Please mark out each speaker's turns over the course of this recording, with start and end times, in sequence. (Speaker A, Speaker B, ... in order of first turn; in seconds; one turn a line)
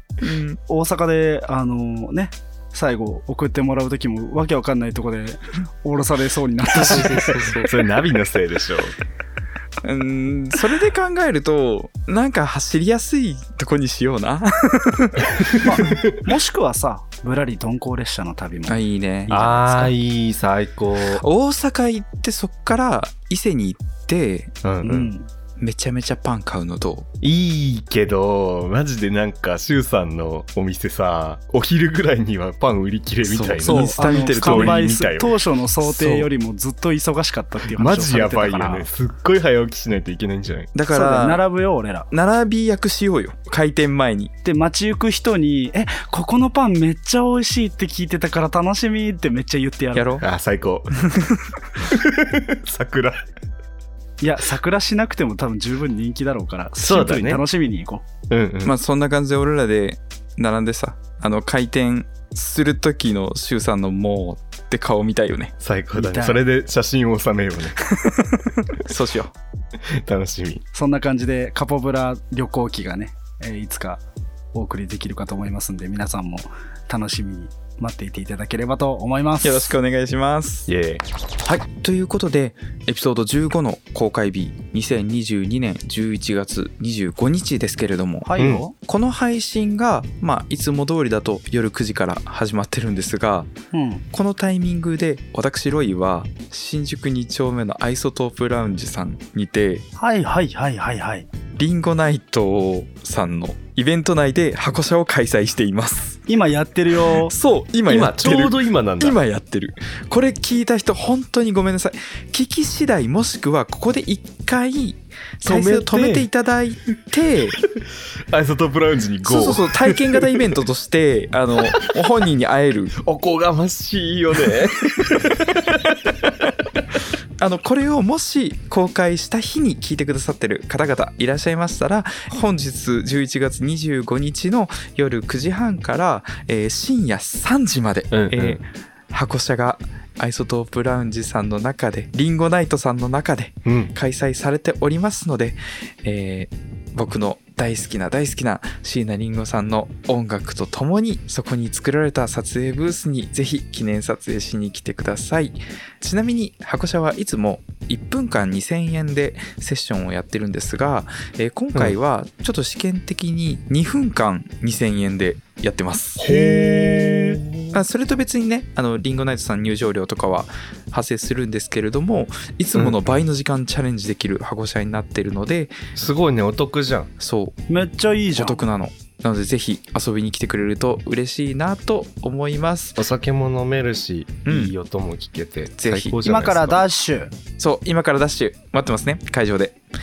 Speaker A: 0.2-0.6
Speaker B: 0.7-7.5
Speaker A: 6.7-7.7
Speaker C: 7.1-8.9
Speaker A: 9.8-15.7
Speaker C: 15.4-16.2
Speaker B: 15.6-18.8
Speaker A: 18.7-19.9
Speaker C: 19.3-21.2
Speaker A: 21.1-24.6
Speaker C: 24.6-25.1
Speaker B: 24.8-25.3
Speaker A: 25.6-27.1
Speaker C: 27.2-35.4
Speaker A: 33.2-34.8
Speaker B: 33.6-38.9
Speaker A: 35.8-36.3
Speaker C: 37.7-40.7
Speaker A: 40.7-41.4
Speaker B: 40.9-42.1
Speaker A: 42.1-44.3
Speaker B: 44.5-50.2
Speaker A: 50.0-50.2
Speaker C: 50.2-51.0
Speaker A: 51.1-51.5
Speaker C: 51.9-53.2
Speaker B: 54.2-58.1
Speaker C: 56.8-57.4
Speaker C: 58.3-58.7
Speaker A: 58.6-65.5
Speaker C: 65.6-67.8
Speaker B: 65.9-66.4
Speaker A: 67.9-69.3
Speaker C: 70.0-70.7
Speaker B: 70.7-74.0
Speaker B: 74.5-79.8
Speaker A: 79.4-80.7
Speaker C: 80.7-81.0
Speaker A: 81.5-93.5
Speaker B: 88.2-88.7
Speaker C: 88.4-88.6
Speaker B: 93.7-94.0
Speaker A: 94.1-99.8
Speaker B: 100.0-101.3
Speaker A: 101.6-106.2
Speaker B: 106.3-107.3
Speaker A: 107.1-117.6
Speaker C: 107.9-109.2
Speaker C: 115.4-116.3
Speaker C: 117.6-120.4
Speaker A: 119.2-122.9
Speaker C: 121.6-121.9
Speaker C: 123.0-126.3
Speaker A: 127.4-175.9
Speaker C: 138.1-138.6
Speaker C: 143.7-143.9
Speaker C: 166.2-167.8
Speaker C: 172.8-173.2
Speaker C: 176.0-177.1
Speaker A: 177.2-177.6
Speaker B: 177.7-178.6
Speaker A: 178.3-183.0
Speaker C: 183.0-186.8
Speaker A: 184.5-184.7
Speaker A: 185.8-186.1
Speaker B: 186.2-187.3
Speaker A: 187.6-189.8